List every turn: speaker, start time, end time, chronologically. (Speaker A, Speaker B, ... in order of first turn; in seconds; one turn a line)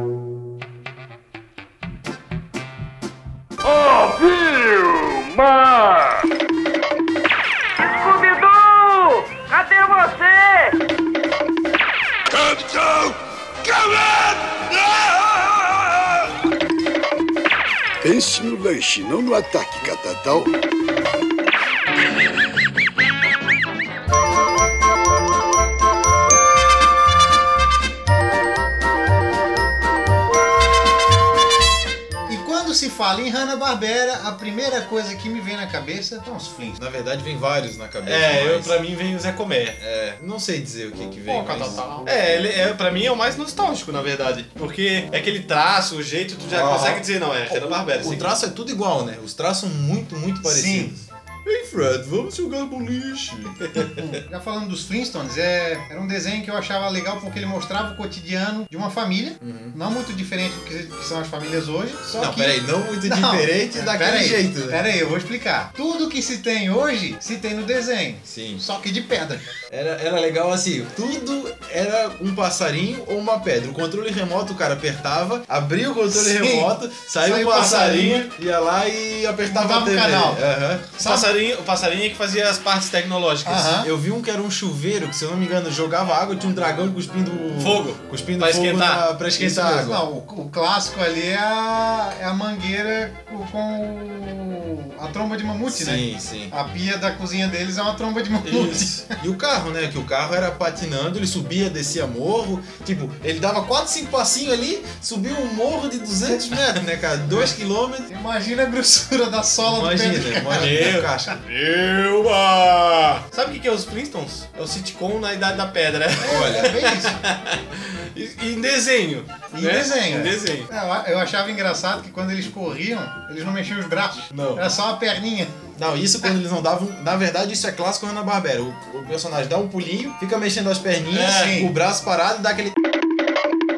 Speaker A: 3.6-6.2
Speaker A: 7.8-10.8
Speaker B: 12.3-16.3
Speaker B: 18.0-20.5
Speaker C: 32.3-36.8
Speaker D: 36.8-38.8
Speaker E: 38.0-39.8
Speaker D: 39.8-41.8
Speaker E: 41.3-48.2
Speaker D: 46.5-51.0
Speaker C: 50.4-50.9
Speaker E: 51.5-54.1
Speaker D: 53.4-53.8
Speaker C: 54.0-69.5
Speaker D: 59.4-59.8
Speaker D: 62.2-64.8
Speaker D: 68.2-68.6
Speaker D: 69.7-81.0
Speaker C: 76.1-76.7
Speaker C: 77.2-78.2
Speaker E: 77.5-78.3
Speaker C: 79.5-80.4
Speaker C: 81.0-81.3
Speaker E: 81.0-83.7
Speaker C: 83.4-83.9
Speaker D: 83.8-90.0
Speaker E: 87.5-89.0
Speaker C: 89.4-99.2
Speaker D: 95.7-96.5
Speaker E: 98.4-99.0
Speaker D: 99.2-108.1
Speaker C: 108.1-110.8
Speaker D: 109.7-111.4
Speaker E: 110.5-120.7
Speaker D: 116.2-116.8
Speaker C: 116.2-117.2
Speaker C: 119.5-125.5
Speaker D: 124.3-124.7
Speaker D: 125.7-132.7
Speaker E: 131.1-131.6
Speaker C: 131.3-131.7